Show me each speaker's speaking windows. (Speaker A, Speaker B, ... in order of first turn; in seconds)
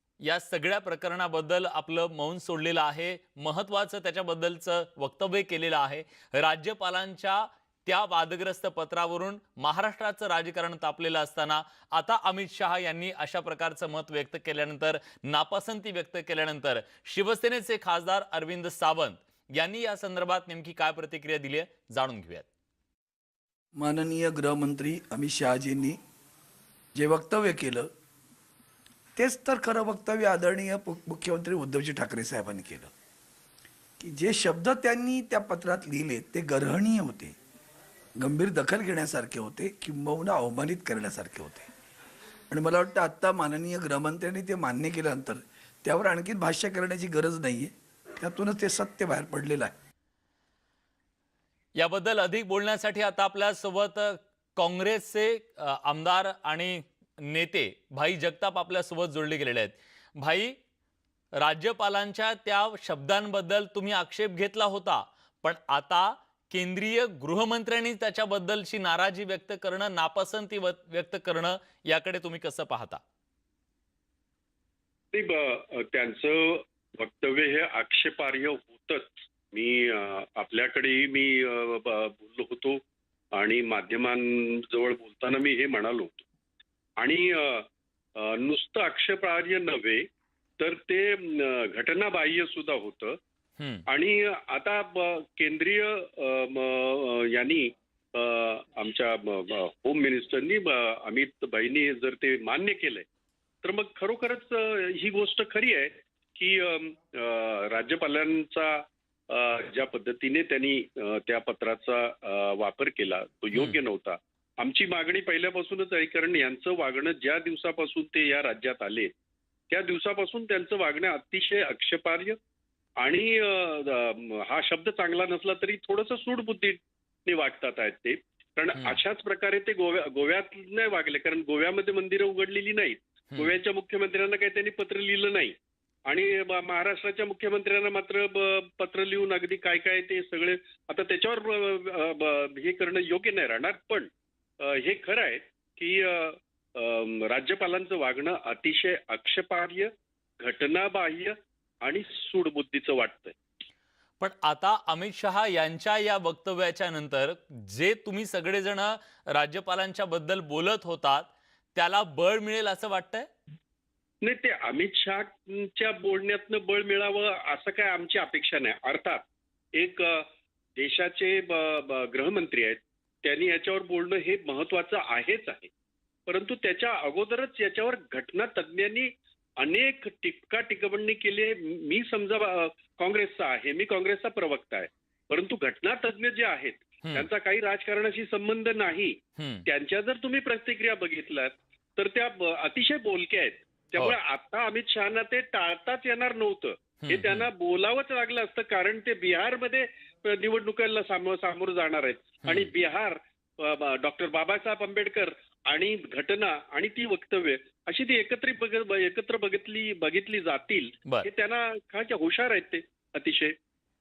Speaker A: 0.2-22.5, 51.8-60.5, 61.4-73.0, 93.6-93.8, 154.2-163.3, 189.4-189.7, 197.1-197.5
Speaker B: 23.8-26.0, 26.9-27.9, 29.2-32.9, 34.0-37.4, 38.2-41.7, 42.5-49.7
Speaker C: 75.1-82.8, 83.3-86.2, 87.0-90.0, 90.6-93.2, 93.9-103.1, 103.6-119.1, 119.7-122.4, 123.0-135.6, 136.1-144.1, 144.6-149.9, 150.4-153.4, 164.2-169.2, 169.8-175.7, 176.3-213.6